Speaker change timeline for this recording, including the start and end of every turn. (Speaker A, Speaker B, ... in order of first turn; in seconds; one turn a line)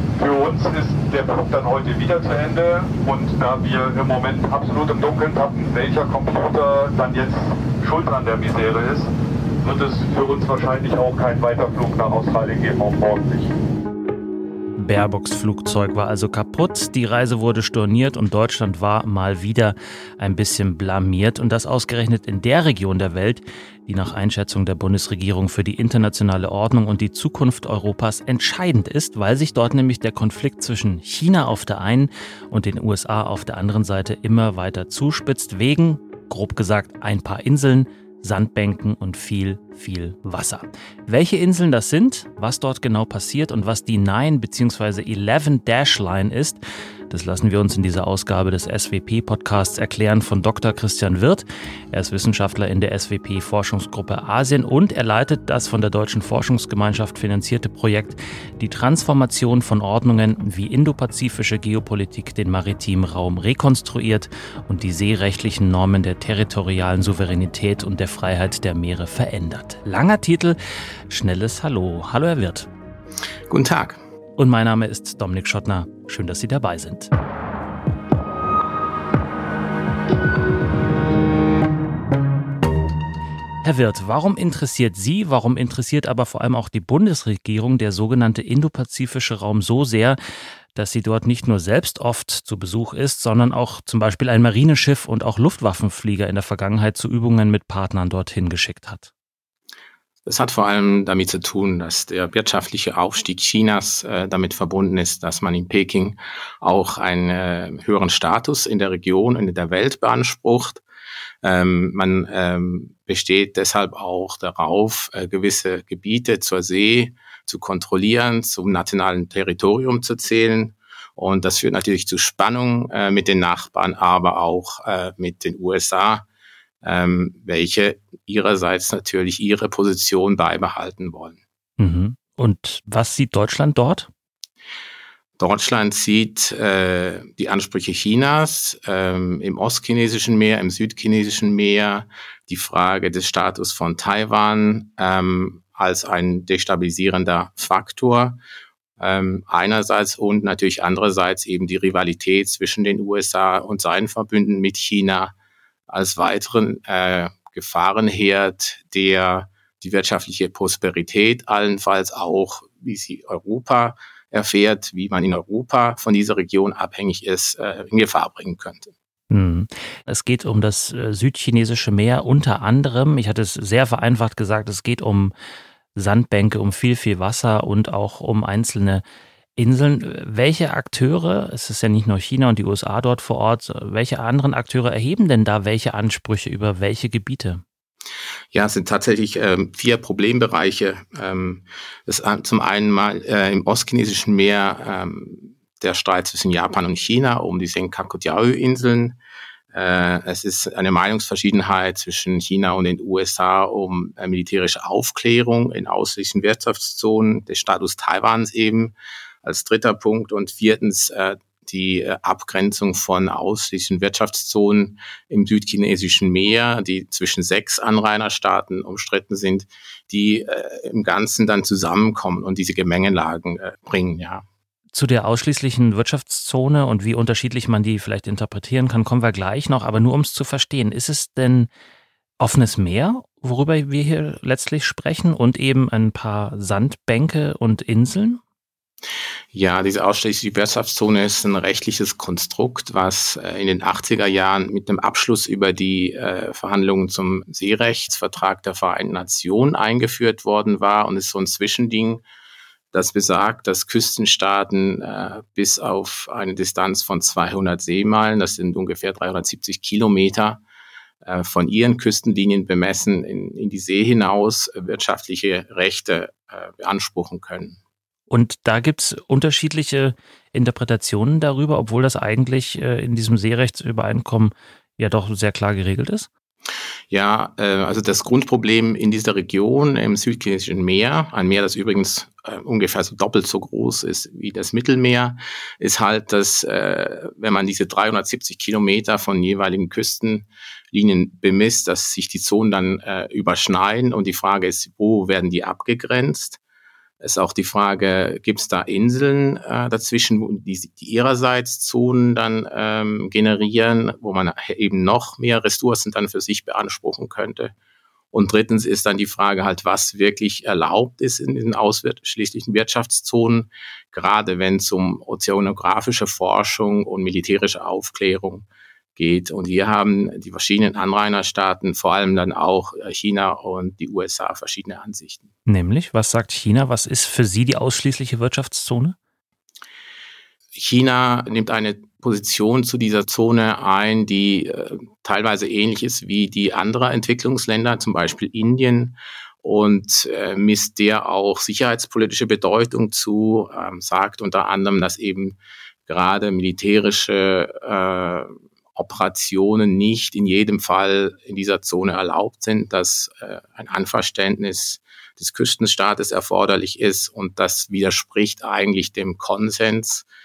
Speaker A: 0.2-9.1
Speaker A: 9.6-13.5
Speaker B: 14.8-70.6
Speaker B: 71.1-72.7
Speaker C: 73.5-74.0
Speaker B: 74.4-77.1
Speaker B: 83.6-90.2
Speaker B: 90.8-99.1
Speaker C: 100.3-110.8
Speaker C: 111.4-126.3
Speaker C: 126.8-131.4
Speaker B: 131.8-134.1
Speaker C: 135.4-148.4
Speaker C: 149.0-155.3
Speaker C: 155.9-168.9
Speaker B: 169.3-175.3
Speaker B: 175.9-179.0
Speaker B: 179.6-187.6
Speaker C: 188.5-199.2
Speaker C: 199.7-224.4
Speaker B: 224.9-231.7
Speaker B: 232.4-238.4
Speaker C: 239.5-252.2
Speaker C: 252.9-260.6
Speaker C: 261.2-267.8
Speaker B: 268.3-276.3
Speaker C: 277.1-296.6
Speaker C: 297.2-307.7
Speaker C: 308.3-318.7
Speaker C: 319.2-325.5
Speaker B: 325.7-329.2
Speaker C: 330.8-360.3